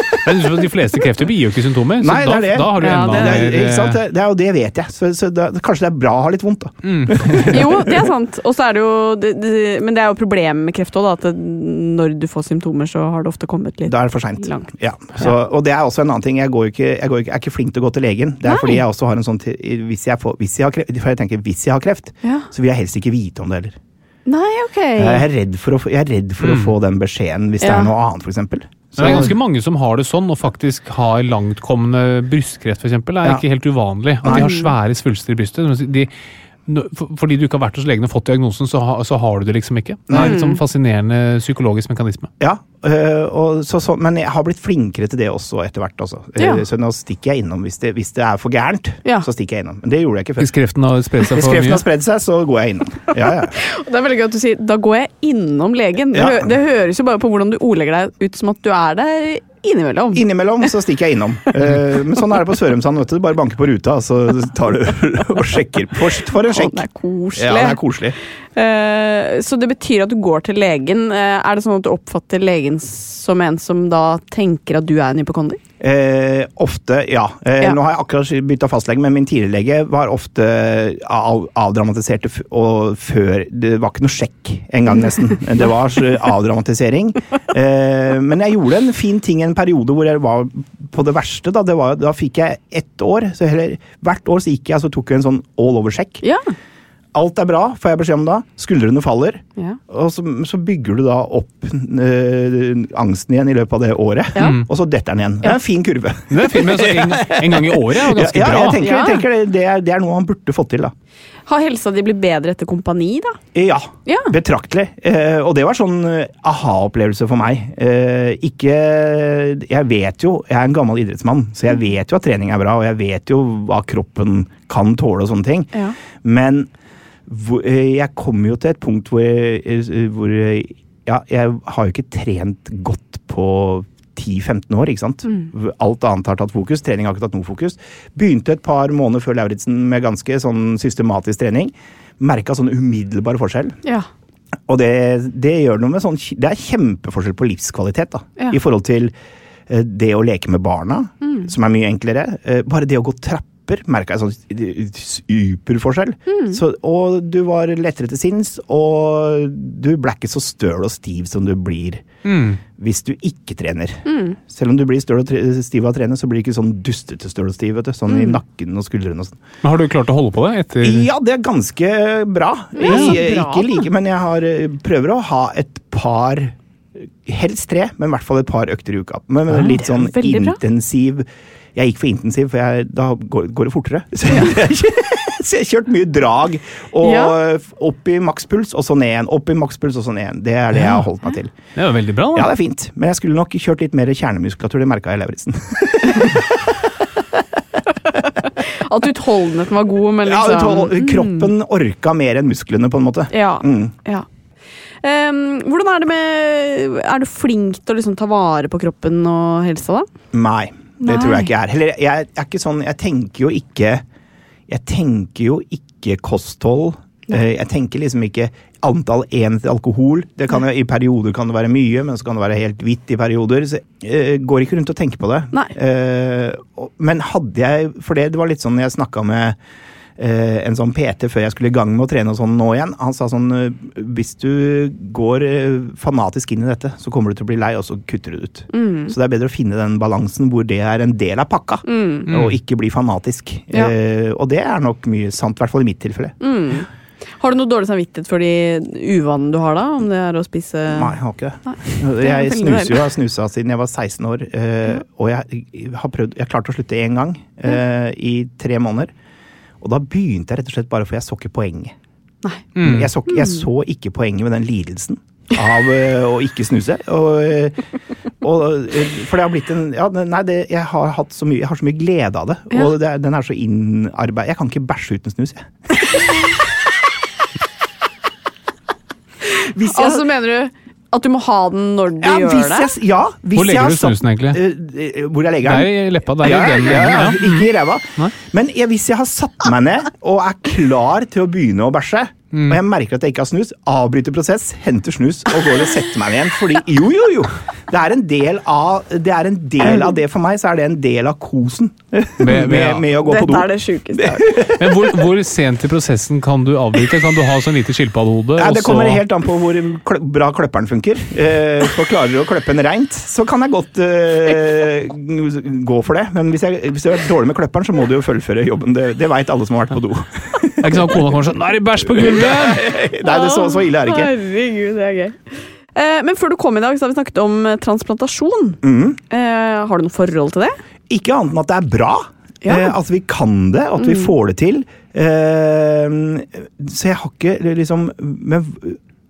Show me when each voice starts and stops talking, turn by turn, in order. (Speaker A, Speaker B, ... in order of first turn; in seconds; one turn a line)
Speaker A: 0.2-4.0
Speaker B: 2.0-8.0
Speaker C: 2.8-3.5
Speaker A: 6.8-7.6
Speaker C: 7.5-15.3
Speaker B: 13.9-23.8
Speaker C: 18.4-18.8
Speaker C: 22.2-22.5
Speaker C: 24.2-25.3
Speaker B: 25.0-29.4
Speaker A: 26.4-26.7
Speaker C: 27.6-27.9
Speaker A: 29.0-36.1
Speaker C: 29.0-29.3
Speaker C: 34.3-34.7
Speaker A: 36.6-42.3
Speaker B: 40.1-40.4
Speaker C: 40.1-40.6
Speaker B: 42.4-50.5
Speaker C: 46.4-46.6
Speaker A: 50.4-51.9
Speaker B: 51.2-53.5
Speaker C: 53.5-60.2
Speaker B: 56.1-56.5
Speaker B: 60.1-66.8
Speaker C: 66.5-67.8
Speaker B: 67.4-68.2
Speaker C: 68.5-75.6
Speaker B: 75.8-96.2
Speaker C: 84.9-85.2
Speaker C: 96.2-96.5
Speaker B: 97.1-110.9
Speaker C: 104.3-104.6
Speaker A: 104.4-104.7
Speaker A: 106.3-108.8
Speaker C: 108.8-109.2
Speaker C: 111.5-113.4
Speaker B: 113.5-126.7
Speaker C: 114.0-114.3
Speaker B: 127.3-143.8
Speaker C: 135.2-135.5
Speaker B: 144.7-149.1
Speaker B: 149.7-162.1
Speaker C: 151.2-151.5
Speaker C: 156.3-156.6
Speaker A: 162.2-162.6
Speaker B: 162.7-169.4
Speaker C: 164.1-164.4
Speaker C: 168.1-168.4
Speaker A: 169.6-171.1
Speaker B: 170.8-176.5
Speaker C: 172.8-173.8
Speaker A: 172.9-173.2
Speaker B: 177.2-191.5
Speaker A: 179.5-179.8
Speaker C: 179.8-180.6
Speaker C: 187.0-187.3
Speaker A: 190.7-191.0
Speaker A: 191.7-192.5
Speaker B: 192.3-196.4
Speaker C: 198.4-201.5
Speaker B: 200.2-203.9
Speaker C: 203.3-204.2
Speaker C: 205.0-210.1
Speaker B: 210.3-214.0
Speaker C: 211.0-211.5
Speaker B: 214.7-229.6
Speaker B: 230.2-246.3
Speaker C: 238.7-239.1
Speaker C: 241.8-242.3
Speaker A: 242.3-242.6
Speaker C: 246.4-246.9
Speaker C: 247.4-253.0
Speaker B: 250.9-259.1
Speaker B: 259.8-261.9
Speaker A: 262.8-263.1
Speaker B: 262.8-267.8
Speaker C: 263.3-263.6
Speaker B: 268.4-275.7
Speaker B: 279.6-280.2
Speaker C: 279.9-282.9
Speaker B: 282.2-305.1
Speaker A: 283.5-284.6
Speaker A: 285.6-288.3
Speaker A: 292.5-292.8
Speaker C: 299.8-300.1
Speaker A: 302.4-303.1
Speaker C: 303.1-304.7
Speaker A: 304.6-309.2
Speaker B: 308.6-321.3
Speaker A: 320.8-322.8
Speaker B: 322.0-324.3
Speaker C: 323.2-330.8
Speaker B: 328.8-329.2
Speaker B: 331.1-339.0
Speaker C: 332.6-332.9
Speaker C: 334.0-334.3